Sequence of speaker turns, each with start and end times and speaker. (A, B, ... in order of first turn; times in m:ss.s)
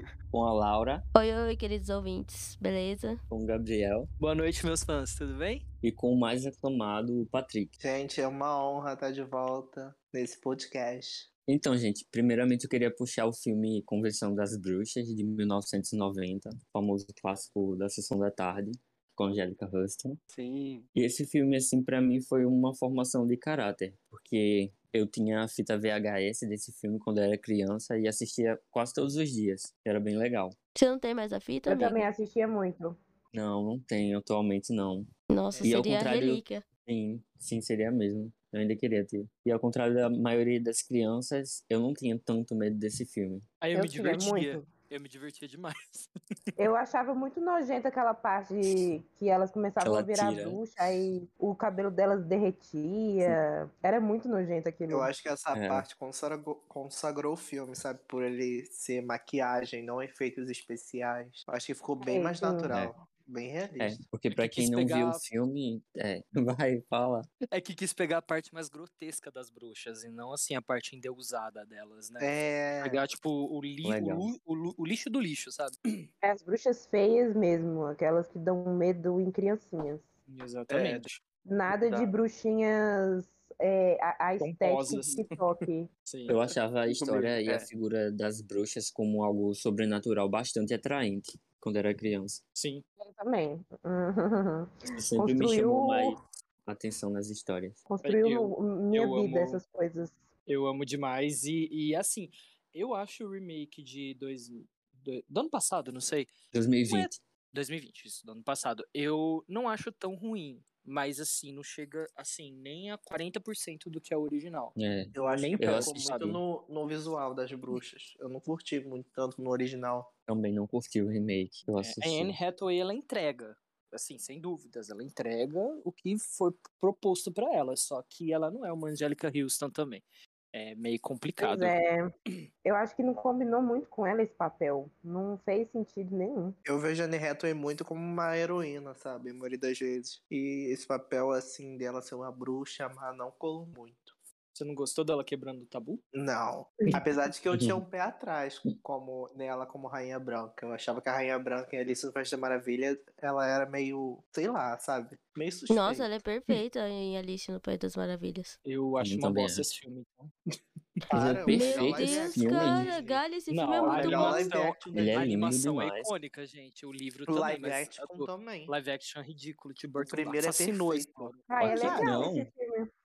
0:00.3-0:01.0 A
0:01.2-0:03.2 B
0:03.3-0:04.1 A
0:04.2-0:05.6 C
0:05.8-0:07.7 A
0:07.8-0:11.3 D
0:11.5-0:20.2 A
0:20.3-0:20.9 E
0:20.9-0:30.6 A
0:30.8-0:32.0 B
0:31.7-0:33.0 F
0:33.3-0:35.1 A
0:35.3-0:36.6 B
0:35.5-0:35.9 D
0:35.6-0:43.4 A
0:43.6-0:46.1 C
0:43.7-0:44.7 F
0:46.6-0:55.1 F
0:49.8-0:50.6 A
0:54.9-1:04.0 D
0:55.5-0:55.9 A
1:02.0-1:02.7 F
1:03.8-1:07.3 A
1:04.3-1:05.2 C
1:07.5-1:12.3 C
1:12.2-1:13.0 D
1:12.8-1:16.1 C
1:13.8-1:14.3 A
1:16.2-1:20.0 F
1:20.3-1:21.2 C
1:20.7-1:21.1 E
1:21.5-1:25.9 F
1:21.7-1:22.1 E
1:24.4-1:26.4 C
1:26.3-1:32.4 A
1:26.9-1:27.7 E
1:32.6-1:32.8 C
1:33.0-1:36.2 F
1:34.9-1:37.8 A
1:37.9-1:40.2 F
1:38.0-1:39.6 C
1:40.5-1:46.3 C
1:46.5-1:47.2 A
1:46.9-1:56.4 C
1:54.8-1:56.4 A
1:55.2-2:00.1 D
2:00.3-2:02.4 A
2:01.8-2:11.8 C
2:11.4-2:12.1 F
2:12.6-2:16.6 F
2:16.7-2:24.2 D
2:24.6-2:26.0 C
2:26.1-2:36.1 D
2:27.5-2:27.8 A
2:35.7-2:38.6 B
2:38.6-2:40.4 C
2:39.0-2:39.7 A
2:41.1-2:43.2 D
2:41.1-2:43.0 A
2:41.5-2:44.7 B
2:43.5-2:51.5 C
2:43.8-2:45.2 D
2:45.0-2:46.1 A
2:47.3-2:48.7 D
2:50.0-2:52.3 D
2:51.5-2:52.9 F
2:51.6-2:52.5 A